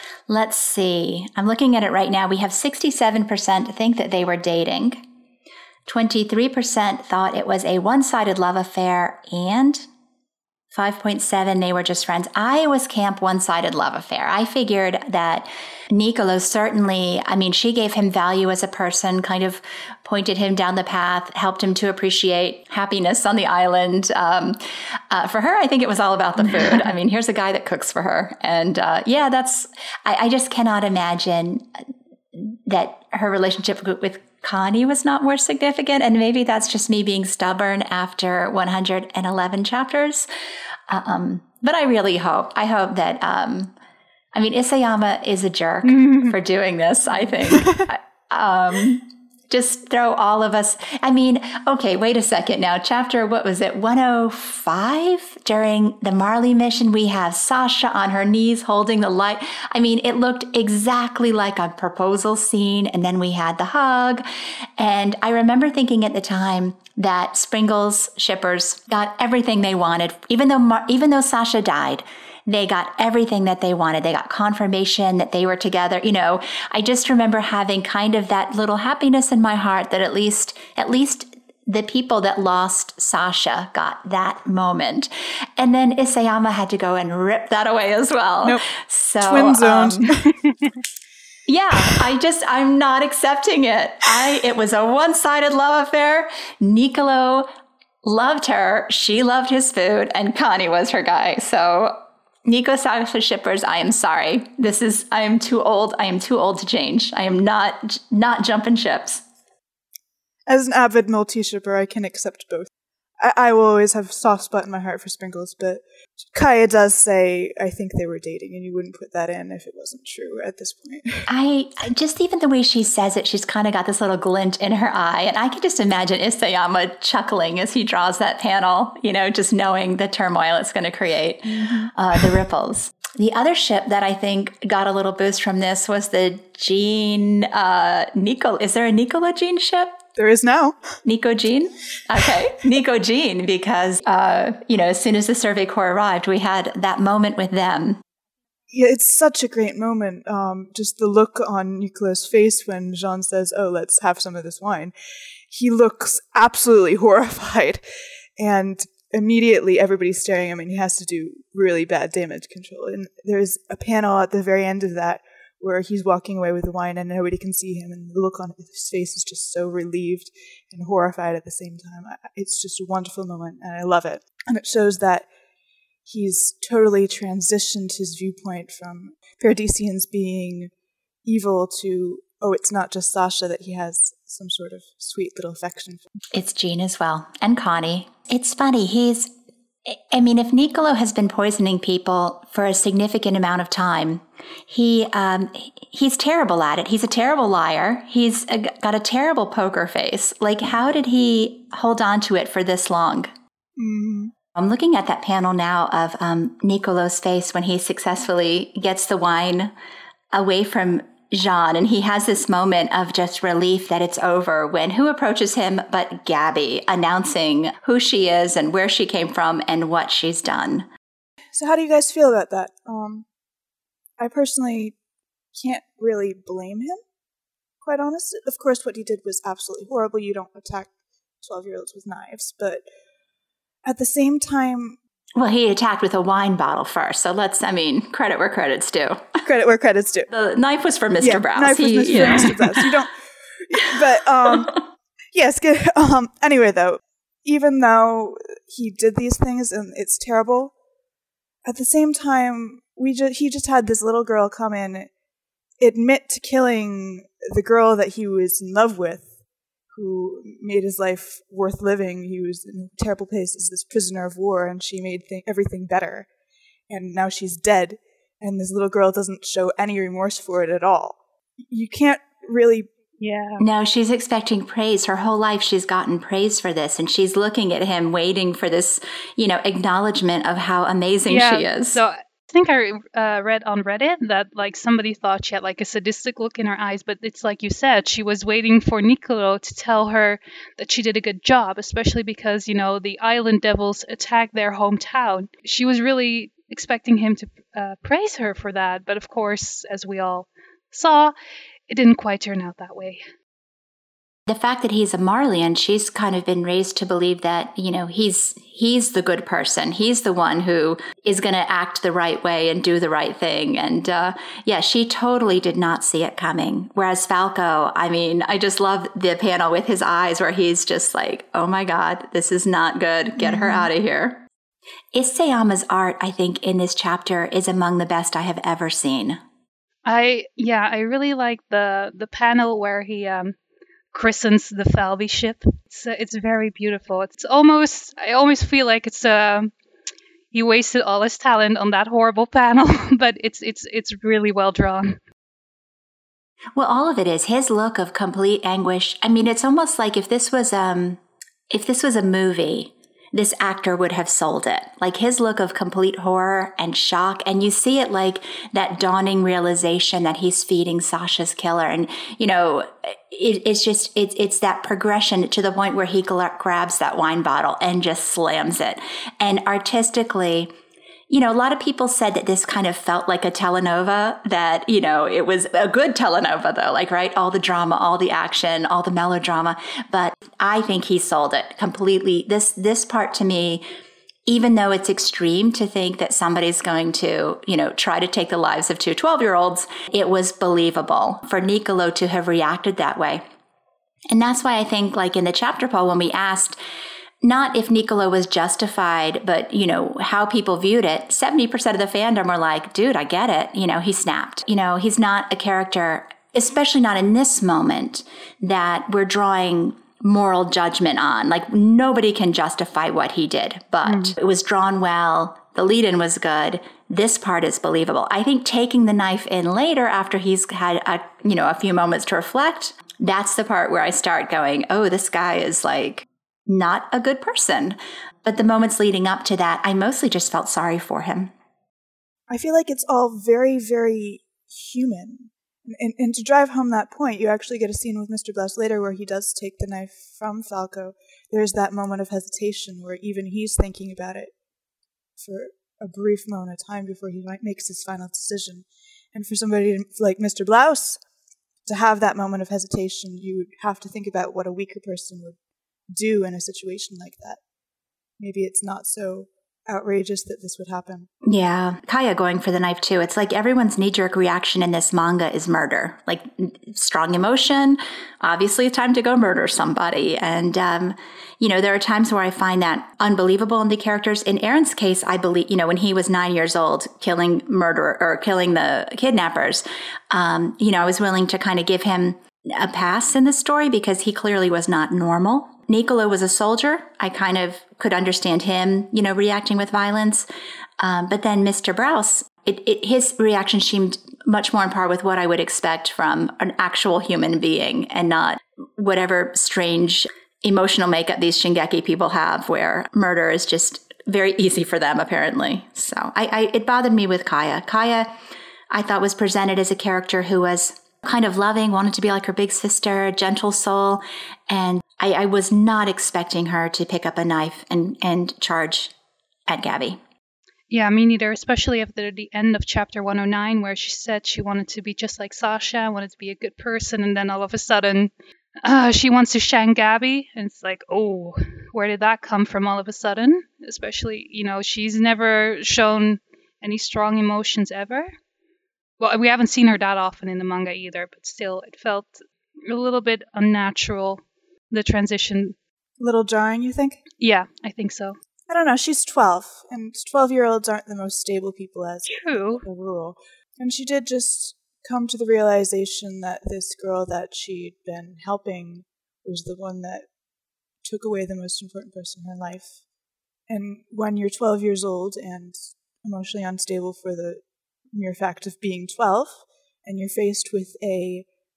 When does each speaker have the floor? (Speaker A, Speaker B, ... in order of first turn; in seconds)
Speaker A: 0.3-5.0, 5.9-9.9, 10.7-40.3, 40.9-43.8, 44.3-64.2, 64.8-90.1, 91.5-97.5, 98.0-109.2, 121.3-140.0, 141.0-148.0, 186.3-189.3, 189.9-203.3, 204.5-209.7, 210.3-220.9, 235.4-239.3, 240.3-242.9, 273.6-282.0, 304.5-324.5, 325.1-329.4, 346.8-370.7, 371.3-383.8, 384.5-393.4, 394.3-396.8, 397.4-431.5, 461.4-490.5, 491.0-508.3, 508.9-519.1, 519.7-520.2
Speaker B: 45.8-46.4, 273.2-273.6, 281.3-301.3, 301.9-303.2, 330.1-333.5, 334.1-339.7, 340.5-345.2, 414.0-414.4, 520.9-528.3, 528.8-538.3, 539.2-545.8, 547.4-548.4, 552.3-552.8
Speaker C: 89.2-90.3, 110.5-112.7, 113.2-115.8, 116.3-121.3, 131.5-131.9, 140.2-141.0, 148.7-154.9, 155.5-157.8, 158.4-175.3, 176.1-180.7, 181.2-186.0, 203.8-204.3, 221.5-223.2, 224.2-225.0, 225.5-227.0, 227.8-230.9, 231.4-232.8, 233.8-235.0, 239.4-240.3, 241.2-250.7, 251.7-255.1, 255.8-259.3, 259.9-266.3, 266.9-272.9, 323.4-323.8, 432.5-444.5, 445.4-451.2, 451.9-455.6, 456.1-457.6, 458.4-461.3, 546.2-547.2, 548.7-560.3, 561.0-563.0, 563.7-567.6, 568.1-571.5